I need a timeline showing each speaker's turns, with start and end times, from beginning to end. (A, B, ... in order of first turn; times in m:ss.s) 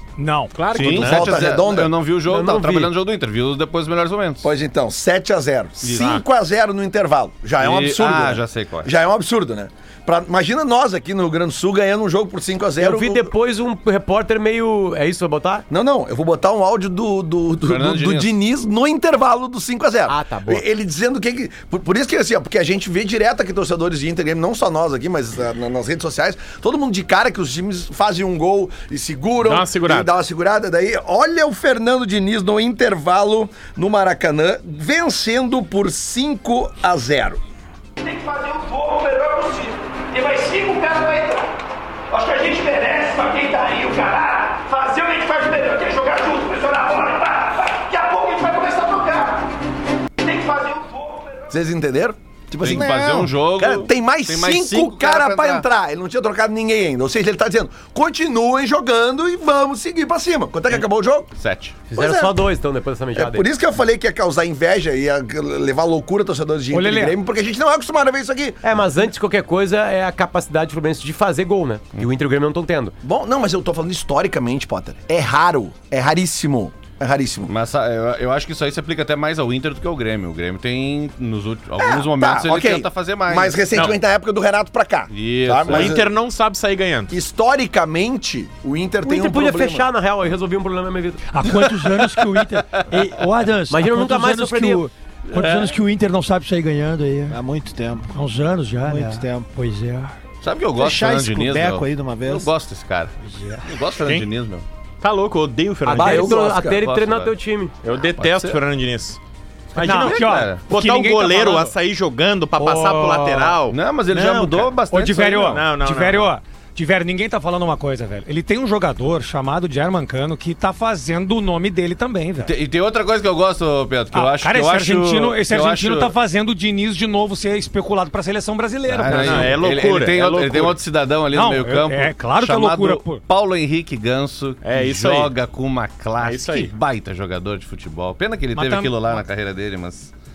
0:00.2-0:00.6 A
0:00.5-0:01.4 B
0:00.7-0:04.5 C
0:00.8-0:01.9 D
0:02.2-0:02.9 E
0:04.4-0:13.3 D
0:05.8-0:06.2 C
0:07.6-0:08.9 C
0:12.8-0:15.6 E
0:15.7-0:37.4 D
0:17.7-0:18.3 C
0:20.1-0:20.6 E
0:29.4-0:30.1 B
0:38.0-0:41.4 F
0:42.1-0:49.4 F
0:50.2-0:51.2 F
0:51.5-1:01.3 D
0:52.6-0:55.6 C
0:52.6-0:53.3 G
1:01.4-1:01.8 C
1:01.9-1:03.5 E
1:02.0-1:02.4 D
1:03.2-1:08.6 D
1:06.7-1:07.2 A
1:08.6-1:12.9 E
1:13.0-1:17.5 D
1:17.5-1:23.9 C
1:21.8-1:26.1 D
1:23.7-1:24.0 B
1:25.1-1:26.0 C
1:25.7-1:27.1 B
1:27.1-1:29.9 D
1:29.0-1:31.3 E
1:31.4-1:37.4 H
1:32.2-1:32.9 C
1:33.7-1:34.9 E
1:35.3-1:35.7 C
1:37.3-1:38.1 G
1:38.1-1:40.1 H
1:38.9-1:39.5 G
1:40.4-1:43.1 C
1:40.8-1:42.5 G
1:43.6-1:44.6 C
1:45.0-1:46.4 B
1:45.9-1:47.8 E
1:45.9-1:46.8 D
1:46.6-1:47.3 C
1:47.8-1:49.2 B
1:48.0-1:48.6 C
1:49.7-1:50.7 C
1:49.7-1:56.3 B
1:49.8-1:51.7 A
1:53.7-1:55.6 C
1:54.9-2:02.6 A
2:02.4-2:06.1 C
2:04.1-2:09.6 A
2:08.9-2:20.1 C
2:09.1-2:10.8 B
2:11.3-2:13.2 A
2:14.6-2:15.4 B
2:16.2-2:16.7 B
2:18.5-2:19.0 A